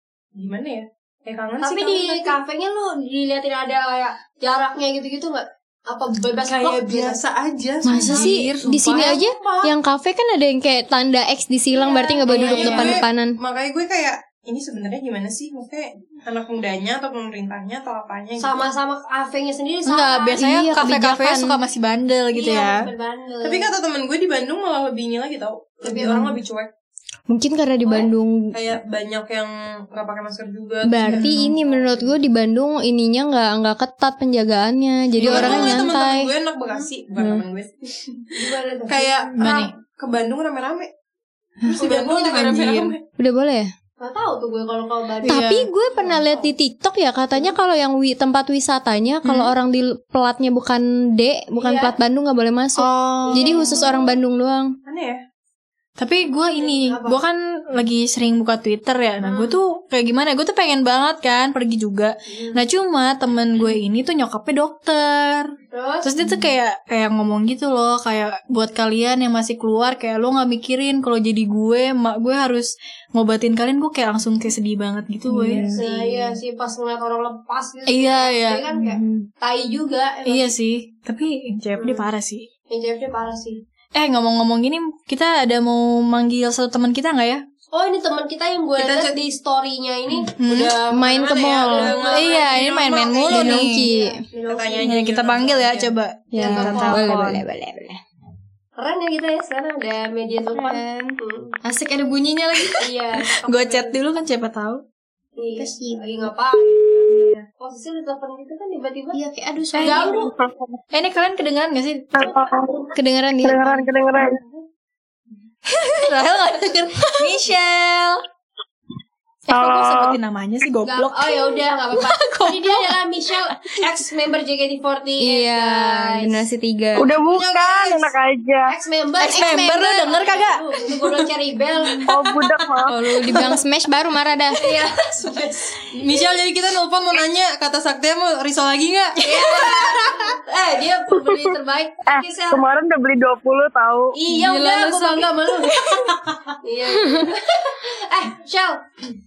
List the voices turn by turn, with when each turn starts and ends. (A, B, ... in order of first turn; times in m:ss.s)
0:00.3-0:02.4 A
0:01.6-0:07.2 B
0:06.5-0:09.8 A
0:07.8-0:13.4 C
0:07.8-0:09.2 D
0:11.7-0:13.0 B
0:12.3-0:18.6 A
0:18.4-0:20.4 B
0:19.9-0:22.9 D
0:20.4-0:21.6 C
0:22.3-0:23.7 B
0:23.4-0:26.7 A
0:25.8-0:26.4 B
0:27.3-0:28.6 C
0:27.9-0:28.1 B
0:28.5-0:31.9 A
0:30.8-0:36.3 C
0:31.1-0:31.5 D
0:35.2-0:40.9 A
0:35.3-0:35.8 B
0:37.2-0:37.4 C
0:38.4-0:39.1 B
0:39.3-0:39.7 D
0:41.6-0:43.0 A
0:41.7-0:42.9 D
0:43.2-0:43.7 C
0:44.0-0:45.4 B
0:45.2-0:45.7 D
0:45.3-0:54.8 C
0:46.0-0:46.5 B
0:49.2-0:49.5 D
0:51.6-0:52.0 B
0:52.8-0:53.5 D
0:53.3-0:54.2 B
0:54.9-0:55.2 A
0:56.0-1:05.5 D
0:56.5-0:57.2 B
0:59.2-0:59.6 B
1:02.3-1:02.6 B
1:05.7-1:06.1 B
1:06.0-1:15.8 D
1:15.3-1:16.3 C
1:15.7-1:20.6 B
1:17.9-1:19.3 D
1:20.3-1:22.5 D
1:21.8-1:22.1 B
1:22.7-1:23.6 B
1:24.0-1:27.4 D
1:27.7-1:35.0 B
1:28.8-1:29.2 A
1:30.4-1:30.7 D
1:30.6-1:33.6 A
1:30.9-1:32.1 C
1:32.1-1:33.9 D
1:33.2-1:34.2 C
1:34.5-1:35.9 A
1:34.8-1:37.4 D
1:36.3-1:38.0 C
1:36.3-1:37.1 B
1:38.8-1:41.6 B
1:40.5-1:42.8 C
1:42.8-1:44.0 B
1:43.3-1:44.8 D
1:45.4-1:49.2 B
1:45.6-1:46.3 C
1:47.1-1:47.4 D
1:49.1-1:50.2 C
1:49.7-1:50.2 D
1:49.8-1:50.3 B
1:50.9-1:52.3 D
1:52.9-1:53.8 C
1:53.5-1:54.3 E
1:55.9-1:58.2 D
1:59.5-2:01.4 D
1:59.5-2:00.1 E
2:00.8-2:06.4 B
2:02.1-2:02.7 D
2:05.2-2:07.1 C
2:07.0-2:08.1 A
2:07.1-2:08.7 E
2:08.7-2:12.1 B
2:09.2-2:10.6 D
2:11.9-2:13.5 A
2:12.1-2:12.9 E
2:12.9-2:14.6 C
2:14.6-2:15.9 B
2:15.9-2:19.9 A
2:19.2-2:22.6 B
2:22.1-2:24.1 E
2:24.1-2:26.1 B
2:24.3-2:26.1 D
2:26.6-2:28.8 B